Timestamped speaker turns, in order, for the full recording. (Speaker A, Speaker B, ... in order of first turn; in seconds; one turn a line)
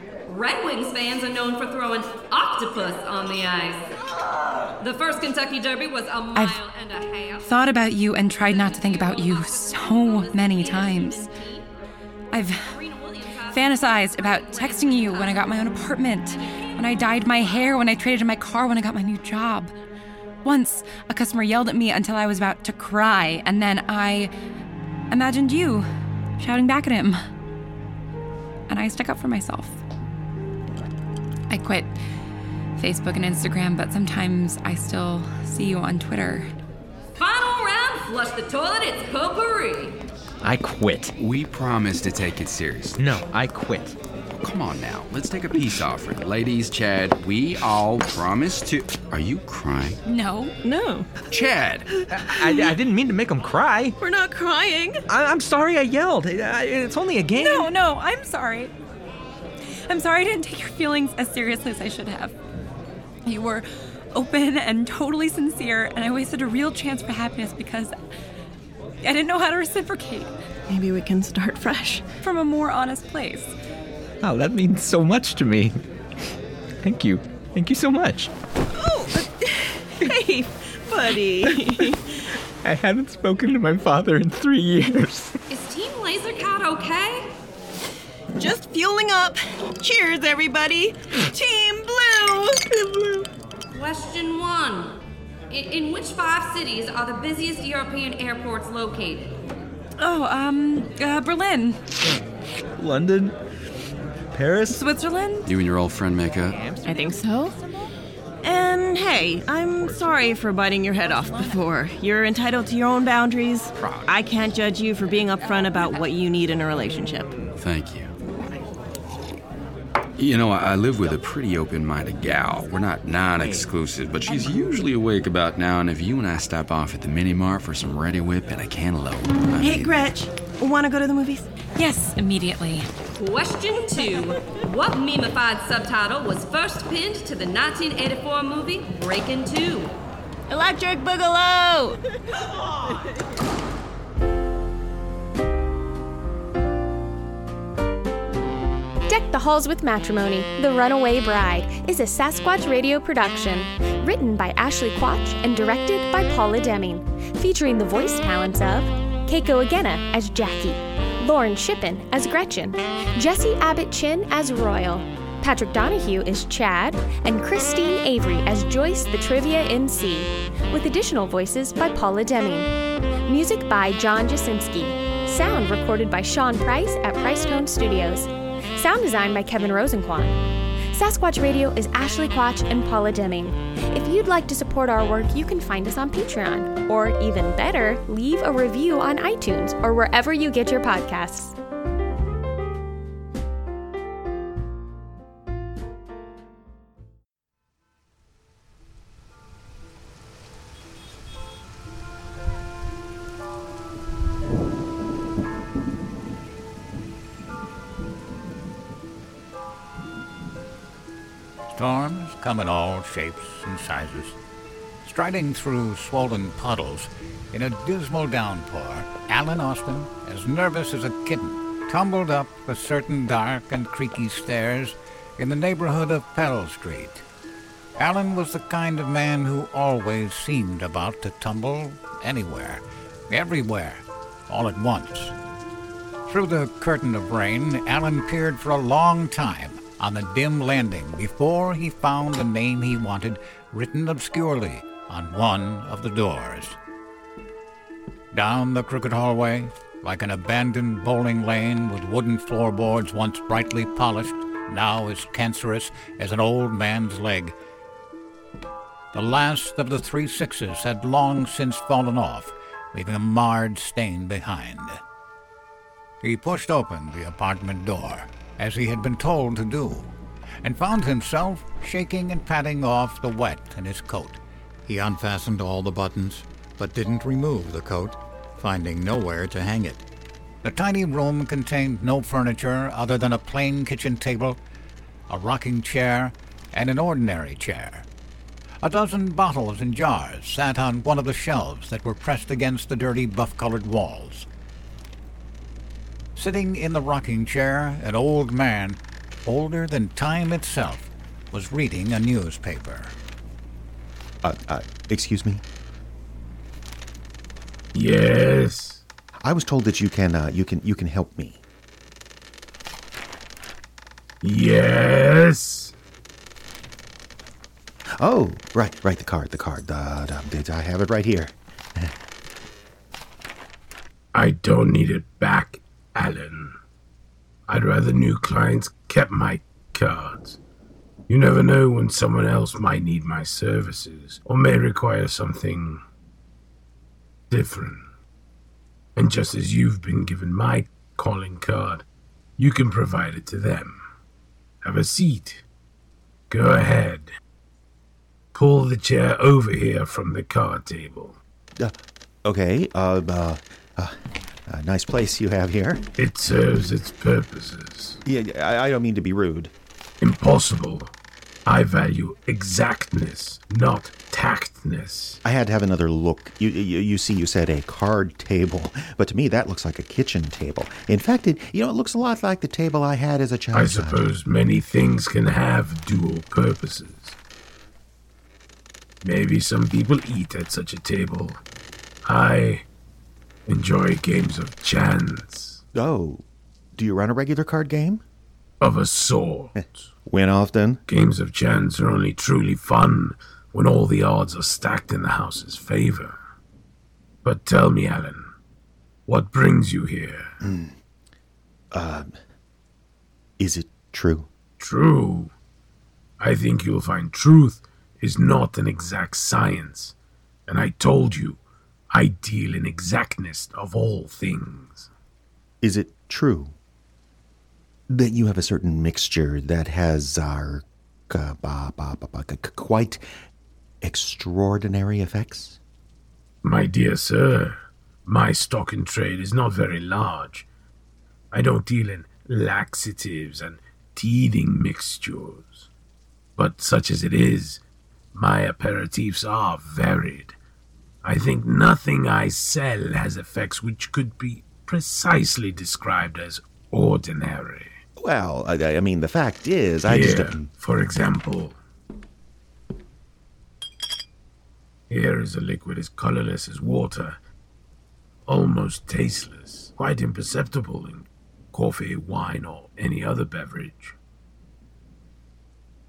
Speaker A: 0.3-4.0
Speaker A: 4.8-7.5
Speaker B: 7.4-11.3
Speaker A: 8.4-11.7
Speaker B: 12.3-12.7
Speaker A: 12.7-15.5
Speaker B: 13.5-19.7
Speaker A: 16.4-17.4
Speaker B: 20.4-24.3
Speaker B: 25.1-25.9
Speaker B: 26.4-27.2
Speaker B: 28.7-29.8
Speaker B: 31.5-32.0
Speaker B: 32.8-36.5
Speaker A: 37.2-40.0
Speaker C: 40.4-41.1
Speaker D: 41.2-43.0
Speaker C: 43.0-44.0
Speaker D: 44.4-50.0
Speaker B: 50.0-50.5
Speaker E: 50.6-51.1
Speaker D: 51.3-51.9
Speaker C: 52.1-54.0
Speaker E: 52.3-52.7
Speaker E: 54.0-55.0
Speaker C: 55.1-57.7
Speaker B: 57.4-58.7
Speaker B: 59.9-62.4
Speaker B: 63.2-67.9
Speaker B: 69.0-70.3
Speaker E: 70.7-72.0
Speaker B: 72.2-73.5
Speaker C: 74.2-75.8
Speaker C: 76.8-78.3
Speaker E: 78.7-82.0
Speaker C: 81.4-81.8
Speaker C: 82.6-85.4
Speaker A: 85.5-87.3
Speaker E: 88.4-93.0
Speaker A: 93.7-95.0
Speaker A: 95.5-99.4
Speaker B: 100.0-101.8
Speaker C: 102.8-103.4
Speaker C: 104.3-104.8
Speaker B: 104.7-105.5
Speaker D: 105.5-106.6
Speaker C: 106.6-107.0
Speaker E: 106.8-107.5
Speaker E: 108.4-117.3
Speaker D: 117.6-118.1
Speaker D: 120.2-130.0
Speaker E: 129.6-131.5
Speaker B: 131.8-132.9
Speaker A: 133.2-139.9
Speaker E: 140.5-142.0
Speaker F: 149.1-172.7
Speaker F: 173.3-180.4
Speaker F: 180.9-191.6
Speaker G: 211.7-214.4
Speaker G: 215.0-227.2
Speaker G: 228.0-235.3
Speaker G: 236.3-246.8
Speaker G: 248.3-257.6
Speaker G: 259.1-265.0
Speaker G: 266.2-270.1
Speaker G: 270.6-280.0
Speaker G: 280.6-284.6
Speaker G: 285.3-288.1
Speaker G: 288.8-294.5
Speaker G: 296.4-303.1
Speaker H: 304.4-305.6
Speaker I: 307.9-309.0
Speaker H: 309.4-311.6
Speaker I: 314.4-315.9
Speaker H: 318.2-322.1
Speaker I: 324.3-326.7
Speaker I: 327.7-330.6
Speaker I: 331.3-336.0
Speaker I: 337.5-338.0
Speaker I: 339.2-342.1
Speaker I: 342.6-344.0
Speaker I: 344.8-345.6
Speaker I: 346.5-347.3
Speaker I: 348.5-351.4
Speaker H: 351.8-354.2
Speaker H: 354.7-356.1
Speaker I: 356.2-358.2
Speaker H: 358.2-359.7
Speaker I: 360.2-361.1
Speaker I: 361.7-365.4
Speaker H: 365.4-374.2
Speaker I: 373.7-377.4
Speaker I: 379.2-381.6
Speaker I: 382.3-382.9
Speaker I: 383.7-385.8
Speaker H: 385.9-388.2
Speaker I: 388.8-390.1
Speaker H: 389.8-391.0
Speaker I: 391.1-396.4
Speaker I: 397.4-398.4
Speaker I: 399.3-400.5
Speaker H: 400.6-400.9
Speaker H: 401.9-402.3
Speaker H: 403.6-404.5
Speaker I: 404.8-405.5
Speaker I: 406.4-410.1
Speaker I: 410.7-415.1
Speaker H: 415.8-416.7
Speaker H: 418.1-423.2
Speaker H: 424.0-425.8
Speaker I: 426.6-430.7
Speaker I: 431.5-435.9
Speaker I: 436.6-437.8
Speaker I: 438.3-440.6
Speaker I: 441.2-447.9
Speaker H: 448.2-450.7
Speaker I: 450.1-451.8
Speaker I: 455.1-457.4
Speaker I: 458.5-464.2